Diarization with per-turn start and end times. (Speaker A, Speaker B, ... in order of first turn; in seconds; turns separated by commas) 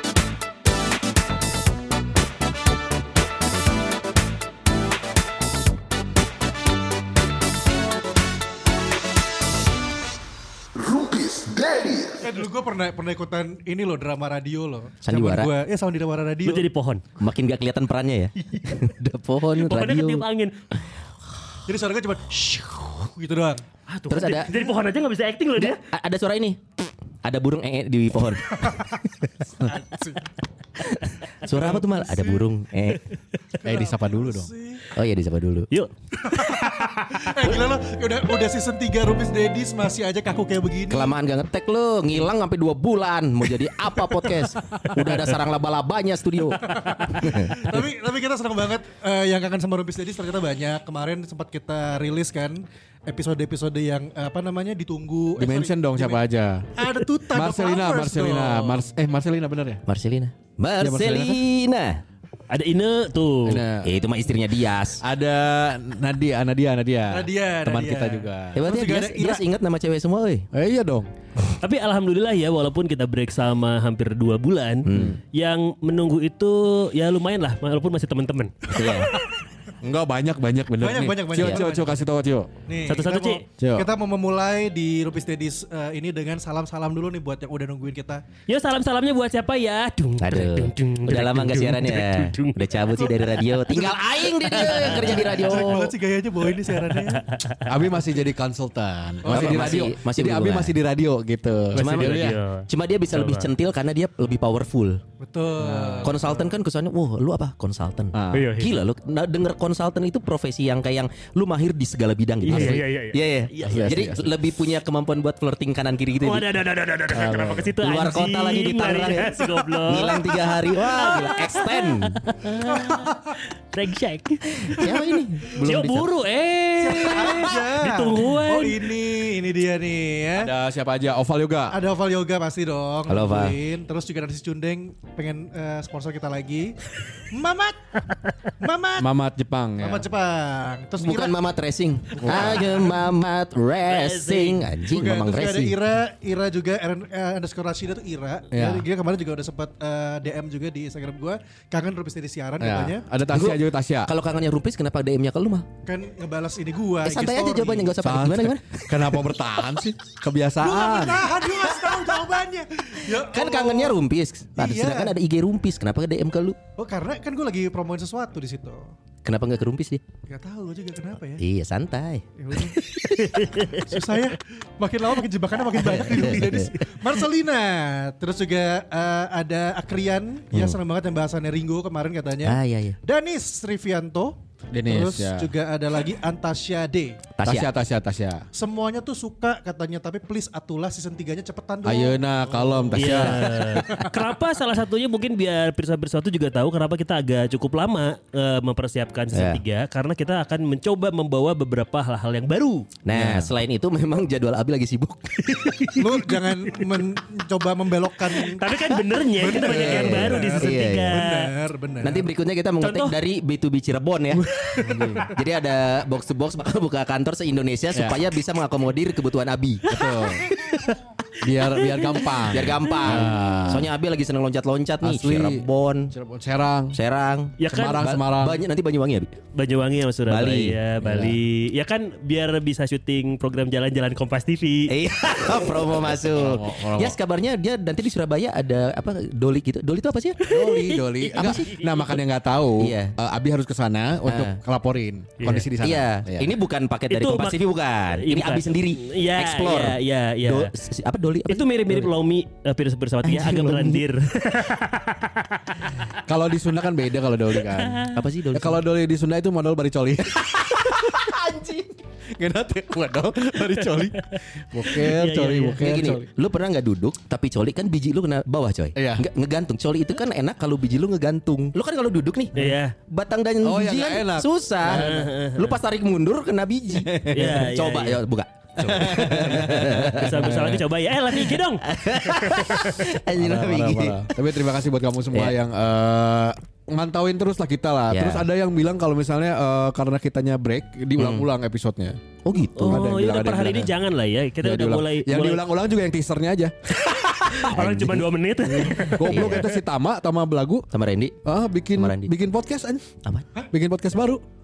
Speaker A: 12.2-16.7, Speaker B: 15.1-15.5, Speaker C: 16.4-17.0, Speaker B: 17.2-20.2, Speaker C: 19.6-20.5, Speaker A: 21.7-23.6, Speaker C: 23.9-25.8, Speaker B: 24.1-24.5, Speaker B: 25.6-29.5, Speaker A: 29.6-30.3, Speaker B: 30.8-33.0, Speaker A: 31.4-32.4, Speaker D: 33.6-34.5, Speaker A: 33.6-34.9, Speaker B: 35.0-35.7, Speaker C: 35.7-36.8, Speaker A: 36.2-41.1, Speaker B: 40.9-47.8, Speaker A: 46.7-56.2, Speaker D: 55.4-59.8, Speaker A: 56.8-58.9, Speaker B: 59.9-62.0, Speaker D: 60.8-61.4, Speaker C: 62.5-63.6, Speaker D: 63.5-64.0, Speaker B: 63.8-65.0, Speaker D: 65.0-68.7, Speaker A: 67.1-69.5, Speaker B: 68.6-70.5, Speaker D: 70.5-71.5, Speaker C: 71.6-78.8, Speaker B: 74.8-75.2, Speaker D: 74.9-75.2, Speaker B: 78.7-79.2, Speaker D: 79.8-82.5, Speaker A: 80.8-82.0, Speaker A: 82.7-88.2, Speaker C: 82.9-83.4, Speaker D: 83.6-83.9, Speaker C: 88.5-93.9, Speaker B: 90.2-95.9, Speaker C: 94.5-95.3, Speaker A: 94.7-97.3, Speaker C: 97.0-97.6, Speaker D: 97.7-102.4, Speaker A: 99.2-99.8, Speaker B: 99.3-100.7, Speaker C: 101.7-103.5, Speaker B: 101.8-105.0, Speaker A: 105.2-106.5, Speaker D: 105.6-106.2, Speaker B: 106.0-116.5, Speaker D: 108.1-108.5, Speaker C: 108.3-108.8, Speaker C: 112.4-114.0, Speaker D: 112.5-112.8, Speaker D: 113.6-114.3, Speaker C: 116.2-128.9, Speaker D: 117.1-117.8, Speaker B: 117.8-122.2, Speaker A: 122.6-123.4, Speaker B: 124.6-126.1, Speaker A: 126.8-130.5, Speaker D: 130.4-131.8, Speaker A: 131.7-138.0, Speaker B: 133.1-133.6, Speaker A: 138.6-139.1, Speaker D: 139.0-140.1, Speaker A: 139.8-141.5, Speaker B: 141.0-145.8, Speaker D: 142.2-142.8, Speaker A: 142.3-142.8, Speaker C: 143.9-144.8, Speaker A: 144.9-153.1, Speaker D: 148.5-148.8, Speaker D: 152.6-154.1, Speaker B: 153.3-155.7, Speaker A: 155.9-157.9, Speaker B: 157.0-159.3, Speaker D: 158.0-161.4, Speaker A: 160.6-164.0, Speaker B: 161.6-162.0, Speaker B: 163.2-166.6, Speaker A: 164.6-165.2, Speaker A: 166.8-168.9, Speaker B: 169.2-170.0, Speaker A: 170.3-171.4, Speaker B: 171.4-173.4, Speaker A: 172.4-172.9, Speaker C: 173.3-173.9, Speaker A: 173.8-187.2, Speaker B: 175.7-176.9, Speaker B: 182.4-183.0, Speaker D: 184.7-185.5, Speaker B: 187.4-187.7, Speaker D: 187.4-188.4, Speaker A: 188.5-194.1, Speaker D: 191.8-194.0, Speaker C: 193.0-202.9, Speaker B: 199.3-199.6, Speaker B: 203.1-206.0, Speaker D: 203.1-203.5, Speaker A: 206.0-208.7, Speaker C: 208.4-211.5, Speaker A: 209.3-212.3, Speaker D: 209.6-210.5, Speaker B: 209.8-211.3, Speaker B: 212.0-214.6, Speaker C: 212.8-213.2, Speaker C: 214.4-214.8, Speaker D: 214.8-215.3, Speaker B: 215.3-219.9, Speaker D: 219.9-220.5, Speaker B: 220.5-220.9, Speaker D: 221.4-223.9, Speaker C: 221.6-223.2, Speaker B: 222.5-226.1, Speaker D: 225.0-227.0, Speaker B: 226.9-229.3, Speaker C: 227.6-228.1, Speaker D: 227.7-228.6, Speaker C: 229.6-234.9, Speaker B: 230.3-230.8, Speaker D: 231.0-231.3, Speaker B: 234.9-240.4, Speaker D: 236.3-237.2, Speaker C: 240.5-242.2, Speaker D: 240.5-246.5, Speaker B: 241.4-241.7, Speaker B: 242.8-243.1, Speaker B: 244.3-244.6, Speaker C: 245.4-245.7, Speaker B: 245.8-252.0, Speaker C: 247.1-250.7, Speaker C: 251.5-255.9, Speaker B: 253.2-254.0, Speaker D: 256.3-266.3, Speaker C: 257.6-258.1, Speaker B: 258.1-258.8, Speaker C: 264.4-265.9, Speaker B: 265.8-272.5, Speaker D: 269.0-269.3, Speaker C: 272.6-272.9, Speaker B: 273.1-280.8, Speaker D: 273.6-275.2, Speaker C: 274.9-275.8, Speaker C: 277.3-278.2, Speaker D: 277.3-277.6, Speaker D: 278.8-280.8, Speaker C: 280.1-281.8, Speaker B: 281.4-284.4, Speaker D: 283.3-292.2, Speaker B: 288.1-288.5, Speaker B: 291.2-291.5, Speaker B: 292.4-293.1, Speaker C: 292.8-295.6, Speaker D: 292.9-293.9, Speaker D: 294.6-297.7, Speaker C: 297.5-299.6, Speaker B: 297.7-298.2, Speaker D: 298.6-300.9, Speaker B: 299.3-299.7, Speaker B: 300.9-301.4, Speaker D: 301.4-303.0, Speaker B: 301.9-302.3, Speaker D: 303.7-304.4